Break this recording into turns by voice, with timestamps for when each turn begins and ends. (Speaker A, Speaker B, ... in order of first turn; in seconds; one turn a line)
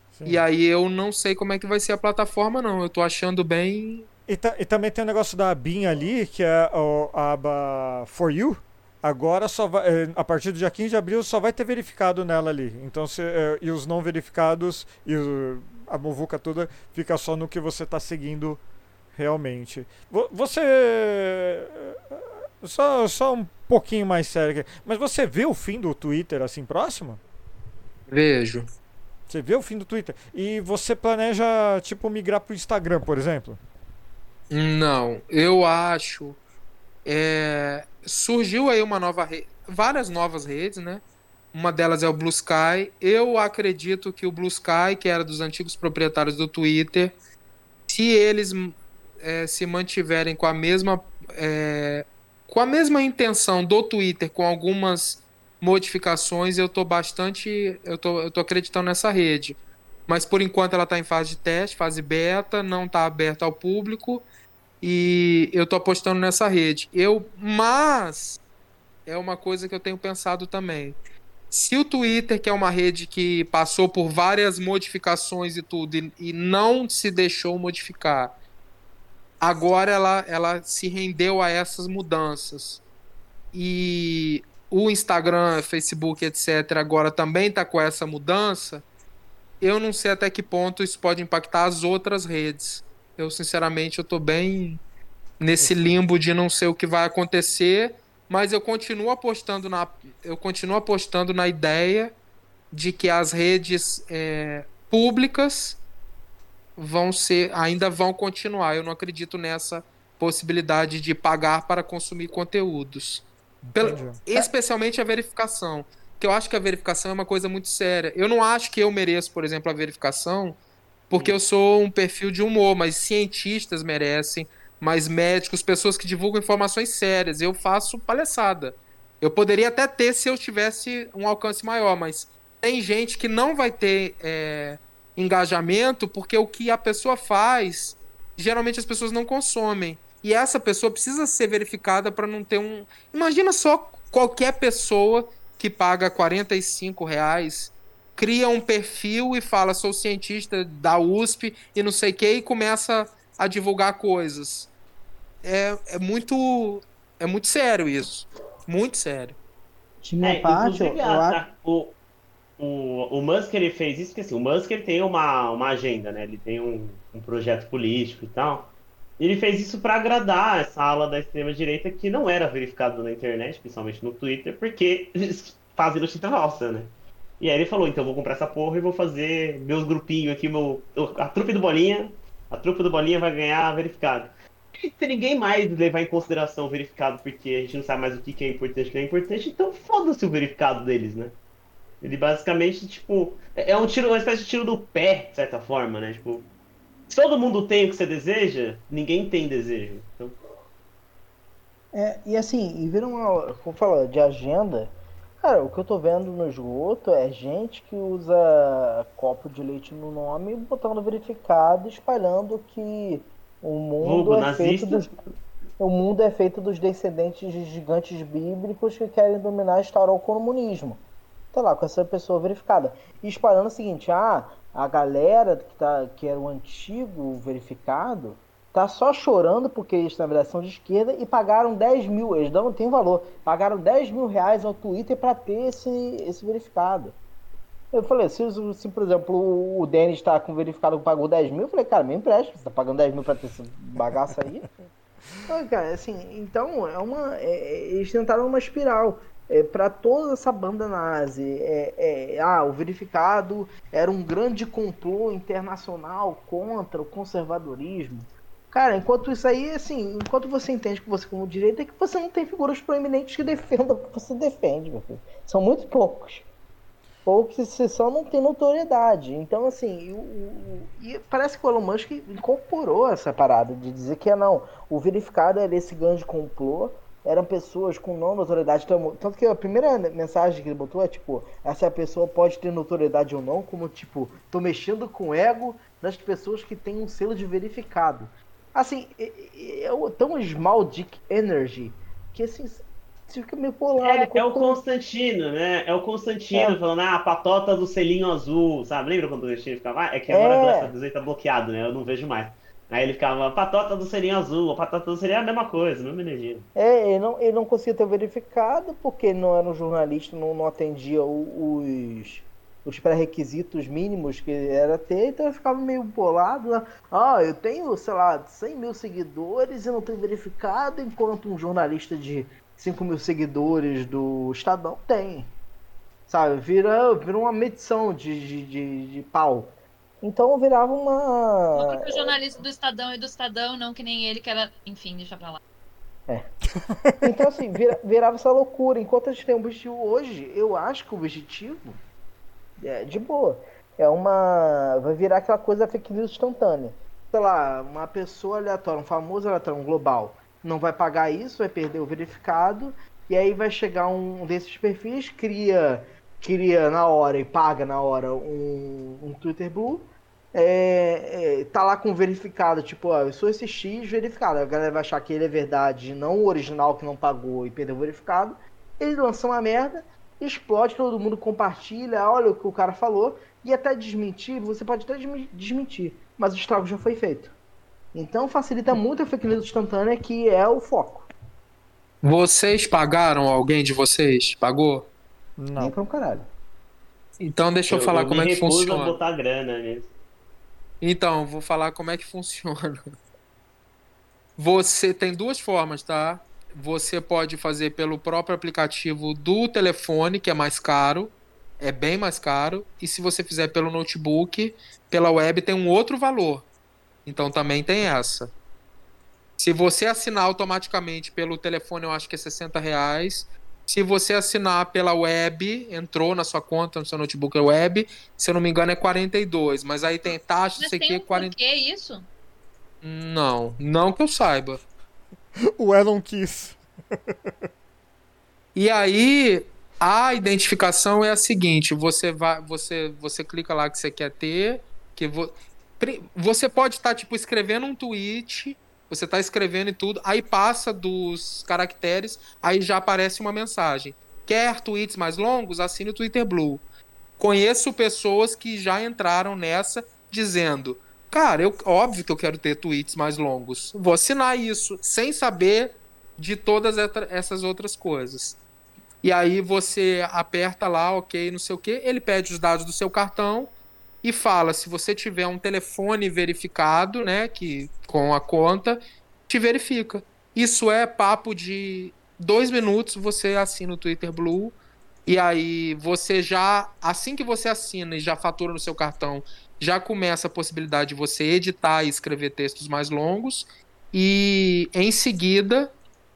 Speaker A: 0.1-0.4
Speaker B: 0.2-4.1
Speaker A: 4.3-18.6
Speaker A: 19.1-27.2
Speaker B: 28.1-28.7
Speaker A: 29.3-33.6
Speaker B: 34.5-36.4
Speaker B: 37.0-47.2
Speaker B: 47.9-59.6
Speaker B: 60.1-64.3
Speaker B: 64.8-68.4
Speaker B: 69.1-71.0
Speaker B: 71.5-78.3
Speaker B: 79.4-82.8
Speaker B: 83.5-88.8
Speaker B: 89.6-94.8
Speaker B: 95.4-102.2
Speaker B: 102.7-105.8
Speaker B: 106.8-120.6
Speaker A: 113.7-114.5
Speaker B: 121.1-154.7
Speaker B: 155.4-159.4
Speaker C: 160.0-161.4
Speaker D: 160.2-161.9
Speaker D: 162.6-191.4
Speaker D: 192.0-196.5
Speaker D: 197.1-200.4
Speaker C: 201.9-215.1
Speaker D: 214.0-215.3
Speaker C: 215.8-221.0
Speaker C: 221.5-237.2
Speaker C: 237.9-244.9
Speaker C: 245.4-266.4
Speaker C: 267.3-294.8
Speaker D: 294.0-306.7
Speaker C: 296.5-296.8
Speaker C: 300.3-300.9
Speaker C: 306.8-325.5
Speaker C: 326.3-332.4
Speaker E: 331.7-335.6
Speaker A: 336.9-337.5
Speaker C: 337.2-342.0
Speaker C: 342.8-377.6
Speaker C: 378.1-381.3
Speaker B: 382.2-385.1
Speaker A: 385.6-385.9
Speaker C: 385.8-386.5
Speaker B: 387.4-389.1
Speaker D: 387.9-390.1
Speaker B: 391.0-393.0
Speaker B: 394.6-406.7
Speaker B: 407.3-408.5
Speaker B: 409.6-421.5
Speaker E: 420.8-422.3
Speaker B: 423.0-424.8
Speaker A: 425.8-426.8
Speaker B: 428.8-446.8
Speaker B: 447.4-458.6
Speaker B: 459.2-463.7
Speaker B: 464.2-485.9